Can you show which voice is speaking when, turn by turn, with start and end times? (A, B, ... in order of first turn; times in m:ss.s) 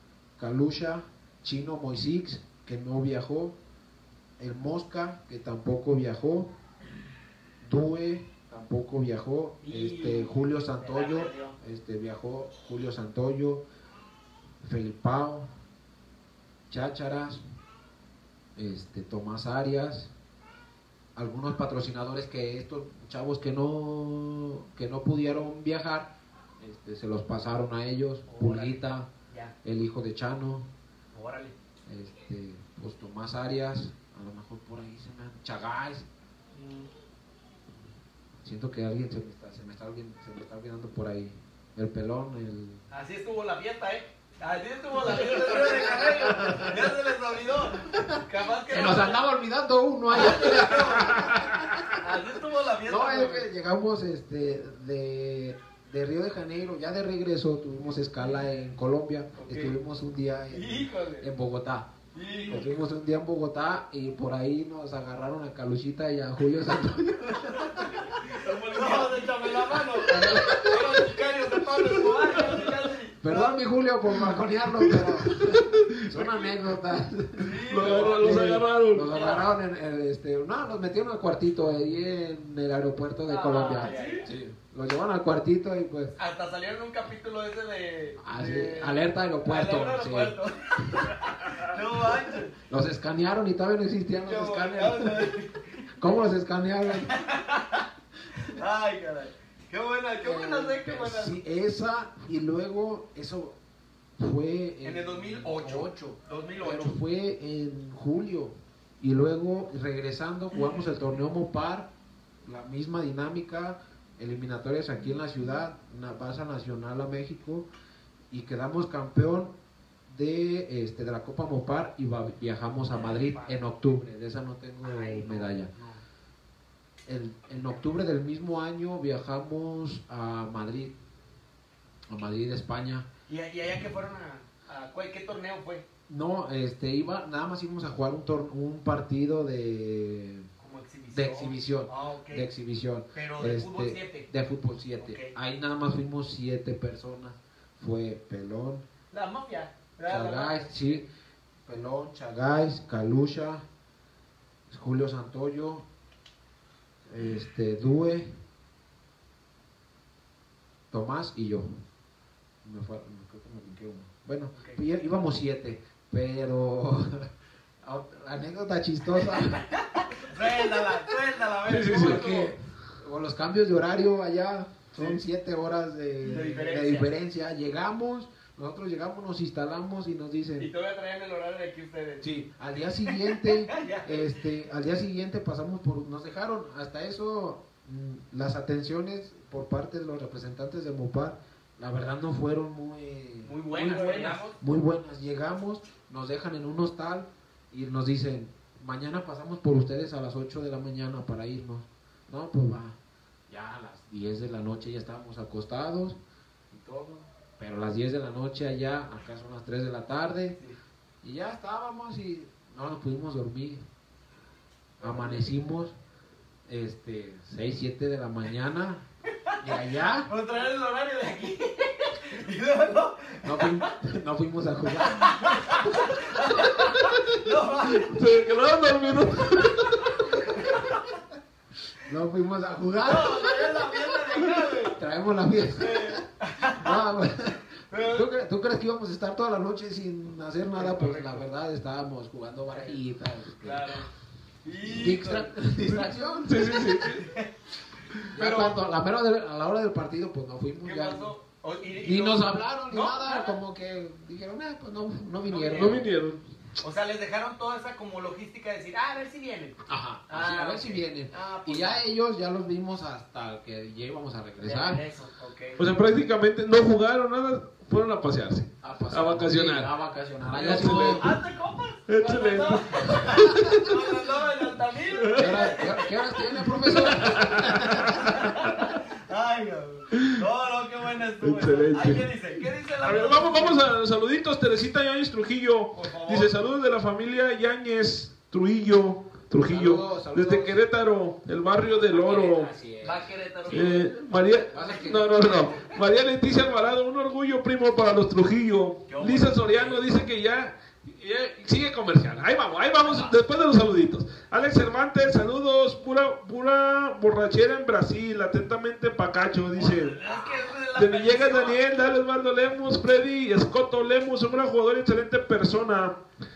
0:00.4-0:03.6 A
0:04.4-0:06.5 A
0:07.6-0:13.6 A
0:09.6-0:11.6 B
0:14.6-0:15.5 A
0:16.7-0:17.4 A
0:18.6-0:20.1 A
0:21.2-0:29.1 A
0:28.3-0:28.8 B
0:29.3-0:29.5 B
0:29.6-0:30.7 A
0:31.1-0:31.6 B
0:31.8-0:36.0 A
0:36.5-0:36.9 B
0:38.4-0:42.8 A
0:42.9-0:49.2 B
0:45.0-0:46.9 A
0:47.9-0:51.9 A
0:50.1-0:51.3 B
0:51.1-0:51.6 C
0:52.0-0:53.5 B
0:52.8-1:01.9 A
0:59.4-0:59.7 B
1:00.5-1:01.3 B
1:02.1-1:02.8 B
1:02.5-1:08.2 A
1:08.2-1:13.6 B
1:08.4-1:09.2 C
1:10.0-1:11.0 A
1:12.1-1:12.7 C
1:13.2-1:26.2 A
1:14.9-1:16.5 C
1:17.4-1:18.5 B
1:17.7-1:19.1 C
1:19.1-1:19.5 B
1:23.3-1:24.2 B
1:26.2-1:32.5 B
1:28.2-1:30.4 A
1:32.7-1:35.3 A
1:34.2-1:36.0 B
1:36.0-1:37.1 A
1:36.9-1:41.4 B
1:40.2-1:43.6 A
1:44.2-1:51.9 A
1:44.8-1:47.0 B
1:50.6-1:50.8 B
1:52.4-1:57.7 A
1:58.3-1:59.5 A
2:00.1-2:05.7 A
2:03.0-2:03.6 B
2:04.8-2:06.0 B
2:07.0-2:10.9 A
2:12.1-2:13.1 A
2:13.3-2:15.8 B
2:16.1-2:20.5 A
2:20.6-2:22.5 B
2:21.1-2:28.8 A
2:23.1-2:24.3 B
2:25.0-2:25.3 B
2:29.1-2:31.0 B
2:30.1-2:31.1 A
2:31.6-2:33.6 A
2:34.7-2:35.8 A
2:37.1-2:38.4 A
2:40.9-2:41.8 A
2:42.6-2:47.3 A
2:44.5-2:44.8 B
2:47.8-2:49.6 A
2:49.8-2:52.6 B
2:51.6-2:52.2 C
2:51.9-3:00.7 A
2:56.3-2:57.1 B
3:00.6-3:02.4 B
3:02.2-3:23.0 A
3:03.0-3:04.4 B
3:13.4-3:14.6 B
3:23.5-3:26.2 A
3:26.7-3:30.6 A
3:31.2-3:33.8 A
3:35.0-3:36.0 A
3:35.0-3:35.4 B
3:36.7-3:39.0 A
3:39.6-3:40.3 A
3:40.3-3:43.9 B
3:43.4-3:45.7 A
3:45.0-3:48.2 B
3:48.0-3:50.1 C
3:49.8-3:51.0 B
3:52.0-3:53.8 A
3:53.0-3:55.0 B
3:54.8-3:56.2 A
3:55.8-3:57.0 B
3:56.8-4:04.0 A
3:57.9-3:58.3 B
4:00.7-4:01.4 B
4:02.7-4:03.0 B
4:03.6-4:04.1 B
4:04.6-4:05.5 B
4:04.8-4:07.0 A
4:06.4-4:07.3 C
4:07.0-4:07.5 B
4:08.3-4:08.7 B
4:08.3-4:11.3 A
4:10.8-4:13.5 B
4:12.0-4:16.1 A
4:15.5-4:16.0 B
4:15.7-4:16.4 C
4:16.8-4:22.0 B
4:19.9-4:25.0 A
4:24.6-4:25.8 B
4:25.8-4:29.9 C
4:28.8-4:31.3 A
4:30.5-4:31.3 C
4:30.6-4:43.8 B
4:32.1-4:33.9 C
4:35.2-4:35.7 C
4:35.3-4:38.1 A
4:36.9-4:38.9 C
4:41.4-4:42.2 C
4:43.0-4:52.7 C
4:45.9-4:46.5 B
4:49.6-4:50.8 A
4:51.8-4:53.8 A
4:53.0-4:54.1 B
4:53.7-5:16.2 C
4:54.7-4:55.3 A
4:59.1-5:00.0 B
5:03.0-5:03.3 B
5:09.7-5:11.8 B